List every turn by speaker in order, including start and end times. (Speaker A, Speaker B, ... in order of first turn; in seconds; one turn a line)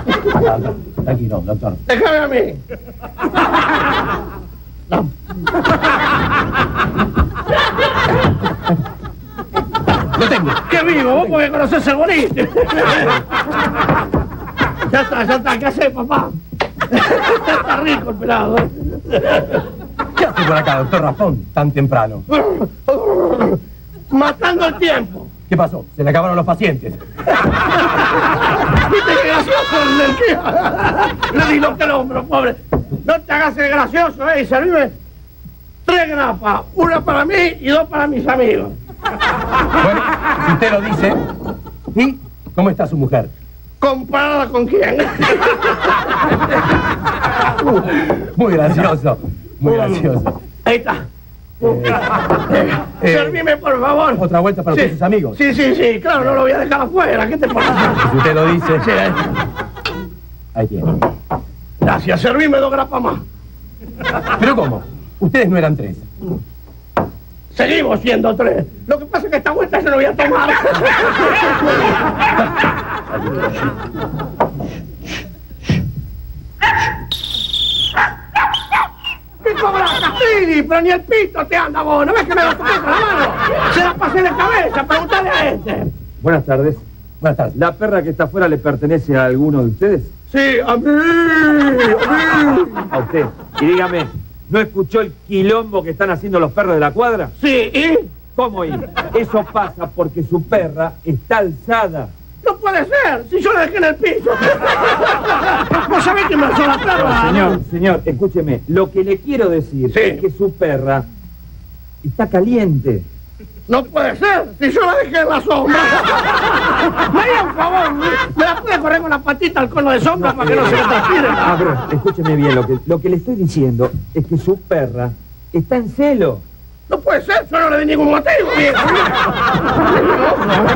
Speaker A: 0.3-1.8
Speaker B: 1.9-2.6
Speaker A: 10.1-11.3
Speaker B: 10.6-13.2
Speaker B: 14.8-16.4
Speaker B: 16.9-19.6
Speaker A: 20.1-22.3
Speaker B: 22.3-25.3
Speaker A: 25.5-27.5
Speaker B: 27.9-34.9
Speaker B: 35.8-38.8
Speaker A: 39.8-41.2
Speaker A: 41.9-43.3
Speaker B: 43.8-46.0
Speaker A: 47.6-50.4
Speaker B: 49.7-50.0
Speaker B: 50.6-51.0
Speaker A: 51.6-52.0
Speaker B: 51.6-58.0
Speaker A: 53.0-53.4
Speaker A: 54.1-55.4
Speaker A: 58.0-58.9
Speaker B: 58.8-59.3
Speaker A: 60.5-60.9
Speaker B: 61.8-63.2
Speaker A: 64.3-66.0
Speaker B: 67.5-71.6
Speaker A: 73.3-73.5
Speaker B: 79.4-85.9
Speaker C: 86.2-86.8
Speaker A: 87.2-87.6
Speaker C: 87.5-90.1
Speaker B: 90.3-92.9
Speaker C: 92.9-97.3
Speaker B: 97.4-98.1
Speaker C: 98.3-102.1
Speaker B: 102.4-107.6
Speaker C: 106.9-111.0
Speaker B: 109.9-110.2
Speaker C: 112.0-113.0
Speaker B: 113.7-121.6
Speaker C: 120.2-120.9
Speaker C: 121.4-126.4
Speaker B: 126.9-129.2
Speaker B: 130.0-130.6